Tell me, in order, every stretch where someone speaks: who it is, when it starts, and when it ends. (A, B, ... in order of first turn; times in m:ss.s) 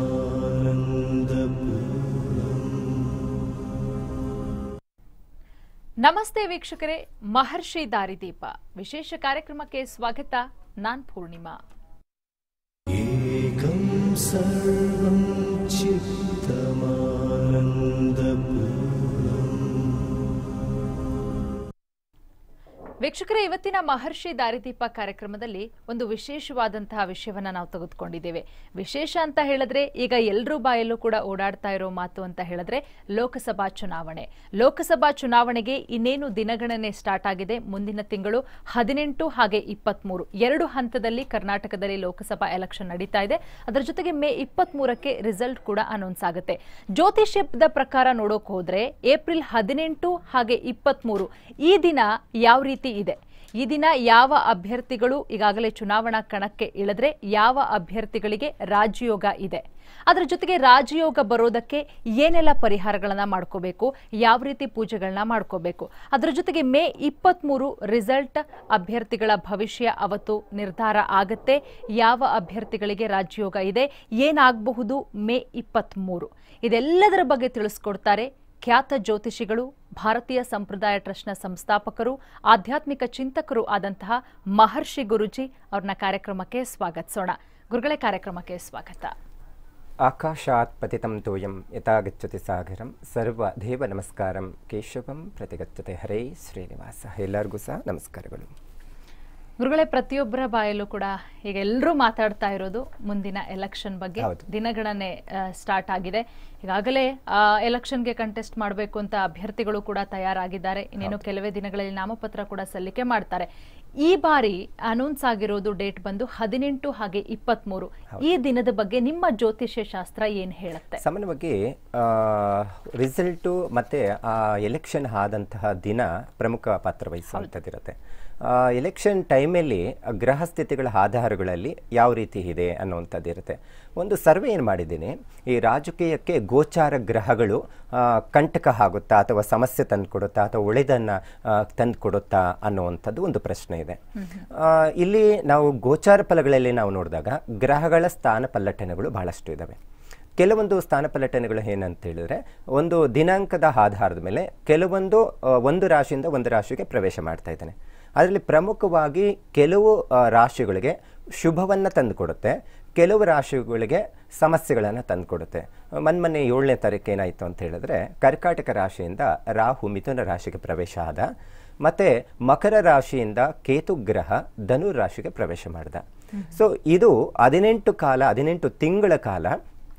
0:00.3-0:00.6 A
0:01.3-0:01.7 A
0:06.0-0:11.6 B
0:13.0-0:19.4 A
0:23.0-1:29.1 B
1:30.0-1:38.5 C
1:39.6-1:53.5 B
1:54.0-2:01.0 B
2:01.0-2:24.0 C
2:24.5-2:29.8 C
2:30.4-2:51.3 C
2:51.8-2:59.6 C